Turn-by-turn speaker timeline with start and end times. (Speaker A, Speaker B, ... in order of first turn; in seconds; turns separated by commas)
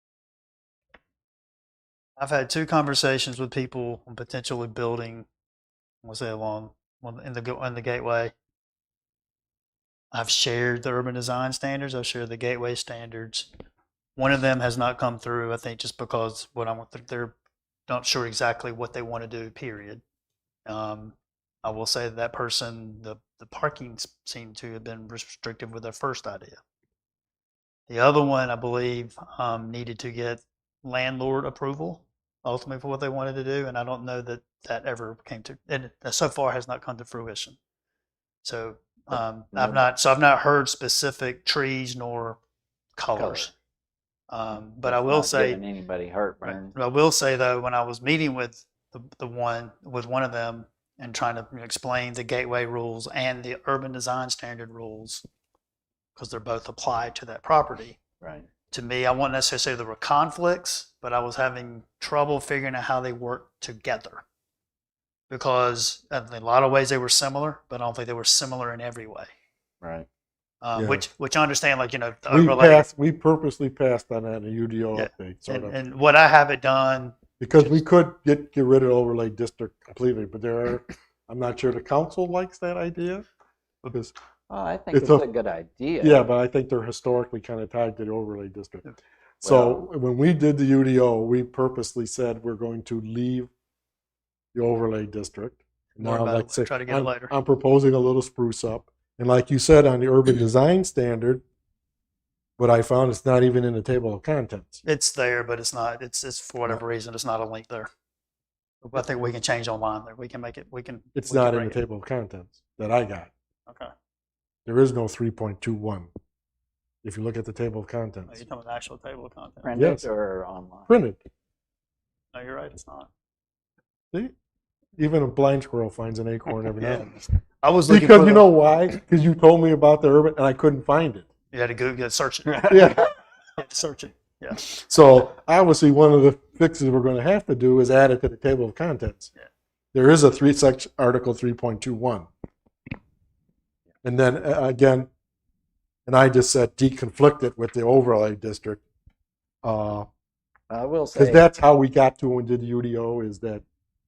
Speaker A: 2.2-5.2, Speaker A: 6.0-8.3, Speaker A: 10.1-13.5, Speaker A: 14.2-17.3, Speaker A: 17.9-20.0, Speaker A: 20.6-26.6, Speaker A: 27.9-37.6, Speaker A: 38.4-42.4, Speaker B: 39.1-39.9, Speaker A: 43.0-43.5, Speaker B: 43.1-43.5, Speaker A: 44.3-45.6, Speaker B: 44.8-46.7, Speaker A: 46.4-55.2, Speaker A: 56.1-58.0, Speaker B: 58.2-58.5, Speaker A: 58.7-64.2, Speaker A: 65.3-69.3, Speaker B: 69.8-70.1, Speaker A: 70.6-72.9, Speaker C: 70.8-71.0, Speaker C: 72.3-75.7, Speaker A: 74.9-77.8, Speaker C: 77.4-83.2, Speaker B: 84.5-86.3, Speaker C: 84.9-85.2, Speaker C: 86.0-88.8, Speaker C: 89.4-93.5, Speaker B: 89.4-89.8, Speaker C: 94.5-101.4, Speaker A: 96.0-97.3, Speaker C: 102.6-104.8, Speaker A: 104.8-107.9, Speaker A: 108.8-111.8, Speaker C: 111.2-113.3, Speaker C: 114.7-116.1, Speaker C: 117.0-118.4, Speaker A: 118.3-119.7, Speaker B: 119.6-120.9, Speaker C: 119.7-120.1, Speaker C: 120.9-121.2, Speaker A: 122.3-123.1, Speaker C: 125.0-127.1, Speaker A: 126.8-128.5, Speaker C: 127.9-131.3, Speaker A: 131.5-133.0, Speaker C: 132.6-133.1, Speaker A: 133.6-134.6, Speaker C: 134.6-139.3, Speaker C: 139.9-142.3, Speaker C: 144.0-145.1, Speaker C: 146.1-148.8, Speaker C: 149.6-150.1, Speaker B: 150.7-151.4, Speaker C: 151.1-153.6